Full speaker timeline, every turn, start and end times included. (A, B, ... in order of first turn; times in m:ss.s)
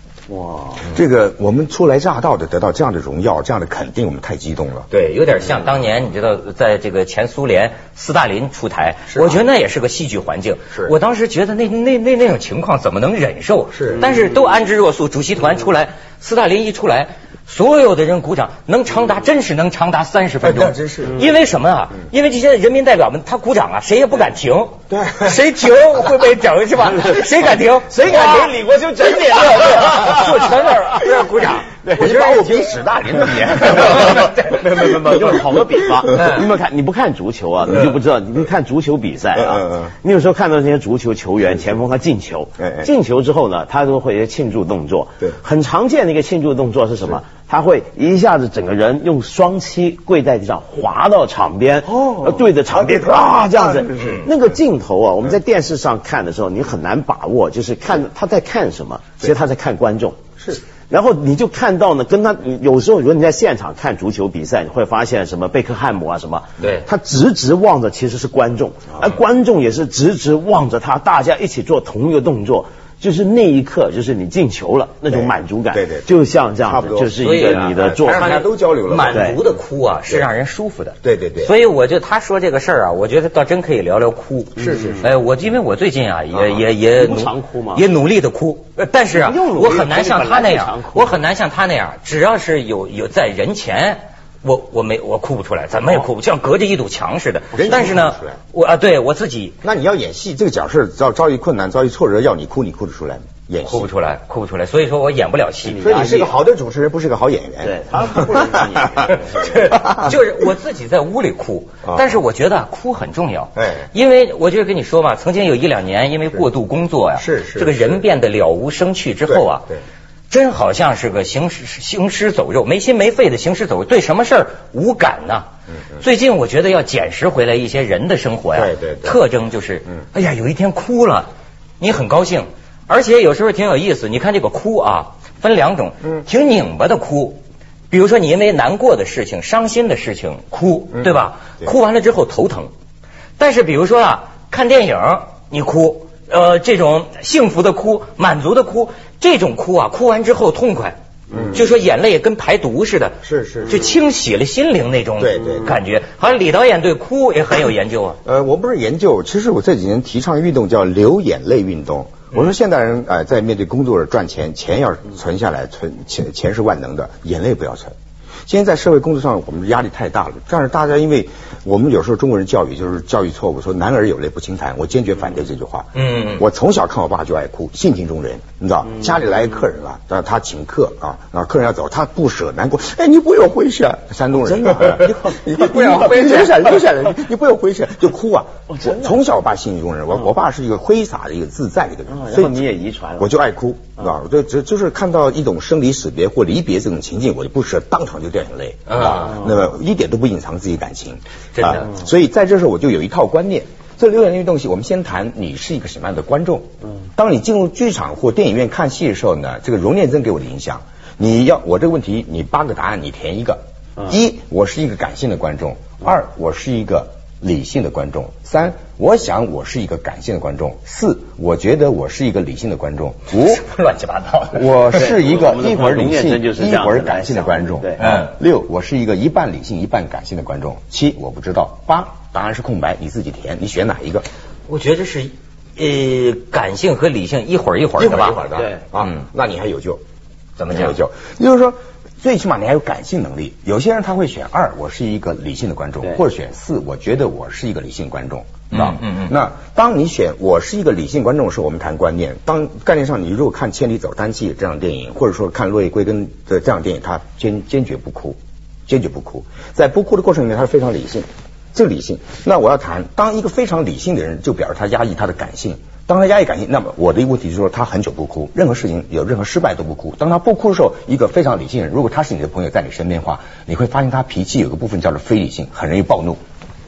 0:00.3-0:00.9 A
0:00.9-0:04.9 B
0:04.9-0:28.5 C
0:09.2-0:09.5 B
0:13.7-0:14.1 B
0:20.4-0:21.3 B
0:24.9-0:25.4 B
0:27.9-0:30.7 A
0:29.2-0:32.7 C
0:31.6-0:32.1 A
0:32.0-0:35.2 B
0:33.4-1:18.3 A
0:33.7-0:34.5 C
0:36.1-0:36.4 C
0:39.3-0:39.9 B
0:42.6-0:42.9 B
0:51.9-0:54.2 B
0:54.0-0:54.3 C
1:06.6-1:06.9 C
1:15.1-1:16.1 B
1:16.6-1:19.2 B
1:17.2-1:39.6 C
1:19.1-1:19.4 A
1:21.0-1:21.5 B
1:24.6-1:25.1 A
1:24.6-1:25.0 B
1:26.3-1:26.7 B
1:26.8-1:27.9 A
1:29.1-1:31.2 A
1:37.5-1:38.4 B
1:39.6-1:43.9 B
1:43.6-1:45.9 C
1:45.6-1:46.5 A
1:45.8-1:50.1 B
1:47.6-1:49.5 A
1:49.1-1:59.7 C
1:53.6-1:53.9 B
1:57.2-1:58.0 B
1:59.3-1:59.8 B
2:00.3-2:05.4 C
2:06.0-2:11.3 C
2:08.6-2:09.2 B
2:11.8-2:22.7 C
2:23.4-2:31.0 C
2:31.3-2:31.6 B
2:31.5-2:38.2 C
2:33.2-2:34.0 B
2:35.2-2:35.8 B
2:38.2-2:47.9 B
2:48.5-3:12.6 B
2:55.9-2:56.4 C
3:04.4-3:05.6 A
3:05.6-3:06.8 C
3:08.7-3:09.2 A
3:12.1-3:13.3 A
3:13.2-3:43.6 B
3:18.9-3:19.4 C
3:21.6-3:21.9 C
3:43.3-3:45.2 C
3:44.5-3:54.3 B
3:44.9-3:48.2 A
3:48.0-3:48.4 C
3:54.7-3:58.5 C
3:58.0-4:00.0 B
3:58.5-3:58.8 A
4:00.6-4:01.0 C
4:00.7-4:36.4 B
4:08.7-4:09.4 C